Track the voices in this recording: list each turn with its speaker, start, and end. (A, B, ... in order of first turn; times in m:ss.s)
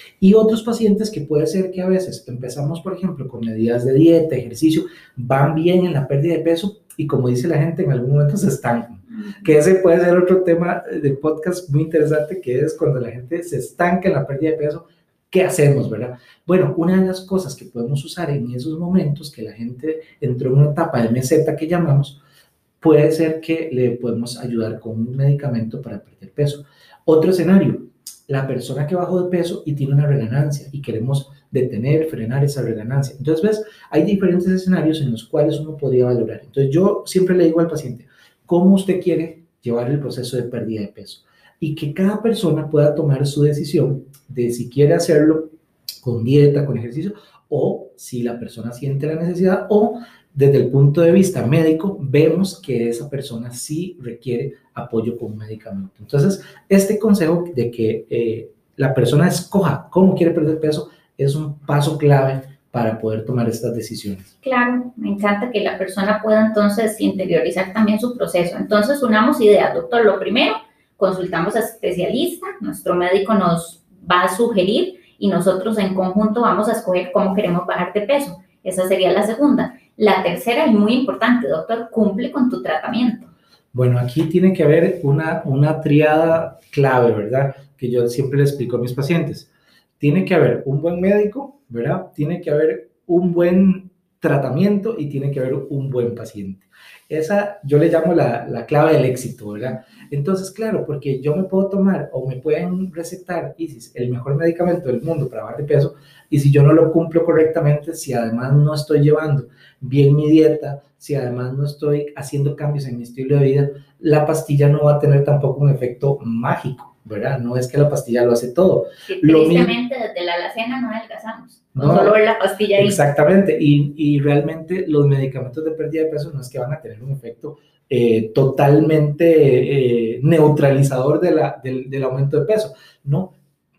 0:00.2-0:22.2 A
0:09.1-0:09.4 B
0:22.8-1:04.3 A
1:04.4-1:23.3 B
1:23.7-1:29.5 A
1:30.0-1:59.7 A
1:59.1-2:03.0 B
2:01.8-2:02.2 A
2:02.8-2:13.3 A